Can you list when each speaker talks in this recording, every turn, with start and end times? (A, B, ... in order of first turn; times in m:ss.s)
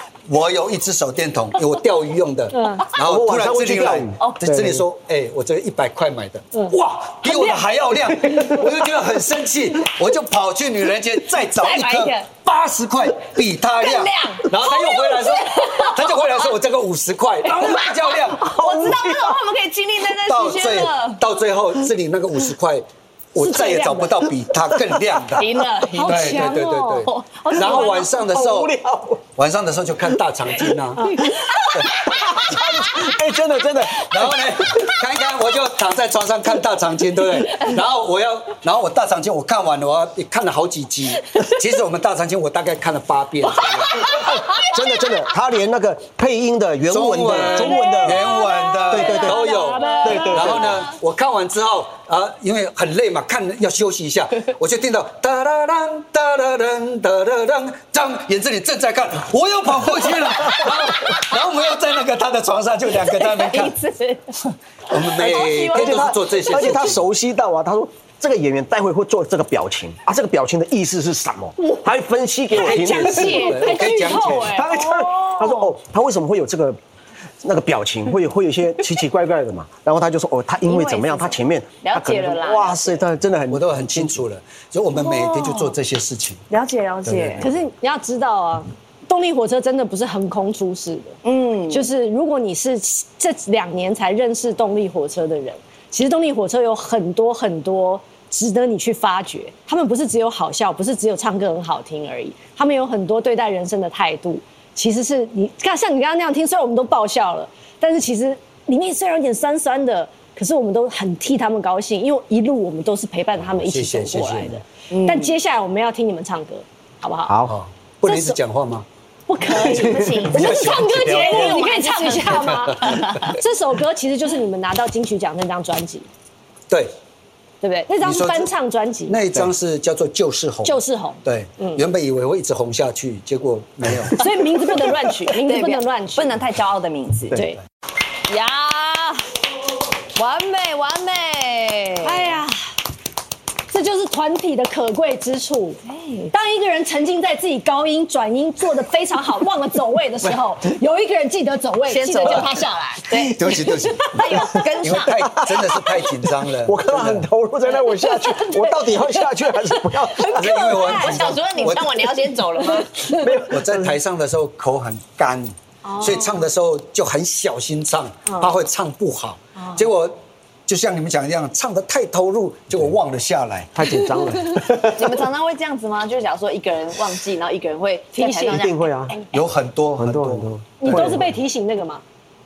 0:00.3-0:18.5 A
0:02.5-0:02.9 B
0:02.9-0:04.8 C
0:08.3-0:08.6 C
0:11.5-0:12.2 D
0:13.8-0:16.5 D
0:17.5-0:21.2 D
0:18.3-0:19.4 C
0:20.2-0:25.5 A
0:23.4-0:24.2 B
0:24.7-0:25.2 C
0:25.4-0:28.3 D
0:25.9-0:28.0 B
0:26.0-0:28.8 A
0:28.2-0:29.2 C
0:29.4-0:31.1 A
0:31.0-0:31.4 B
0:31.2-0:34.9 C
0:31.3-0:32.6 D
0:31.7-0:32.0 A
0:33.9-0:44.2 A
0:43.5-0:45.2 D
0:44.1-0:48.2 C
0:44.3-0:44.6 B
0:46.9-1:03.8 A
0:47.5-0:50.9 D
0:48.9-0:49.4 C
0:49.0-0:50.7 B
0:50.0-0:50.8 C
1:03.0-1:04.4 D
1:04.9-1:07.0 D
1:04.9-1:07.0 A
1:05.2-1:13.7 C
1:12.5-1:14.7 B
1:12.6-1:14.6 A
1:14.4-1:16.8 C
1:14.6-1:15.7 D
1:17.4-1:24.2 C
1:20.6-1:23.0 D
1:23.5-1:26.4 A
1:24.9-1:25.8 D
1:26.5-1:27.5 D
1:27.1-1:27.5 A
1:27.4-1:31.2 B
1:31.2-1:31.9 D
1:31.7-1:57.4 B
1:53.6-1:54.6 A
1:54.9-1:55.3 D
1:57.3-1:57.6 C
1:57.5-1:58.9 A
1:58.1-1:58.4 B
1:59.3-2:06.1 B
1:59.4-2:03.3 D
1:59.7-2:00.5 C
2:00.3-2:01.7 A
2:02.3-2:03.3 A
2:07.7-2:09.2 B
2:08.0-2:08.5 A
2:09.1-2:14.2 A
2:10.6-2:11.8 B
2:14.1-2:16.4 B
2:14.8-2:17.4 D
2:17.3-2:17.6 B
2:18.3-2:19.3 D
2:20.2-2:22.4 D
2:22.0-2:22.6 B
2:23.7-2:25.8 B
2:25.9-2:26.3 D
2:26.3-2:32.8 B
2:31.9-2:35.5 D
2:33.1-2:37.3 A
2:35.1-2:40.5 C
2:37.8-2:39.2 B
2:39.8-2:41.7 B
2:40.2-2:42.9 D
2:40.4-2:42.1 A
2:42.6-2:43.3 B
2:43.1-2:44.0 C
2:43.5-2:53.7 A
2:45.9-2:46.3 B
2:53.8-2:55.1 C
2:54.7-2:59.2 D
2:58.2-2:58.6 B
2:58.5-2:59.2 C
2:59.3-3:01.3 A
3:00.0-3:01.3 C
3:00.8-3:02.0 B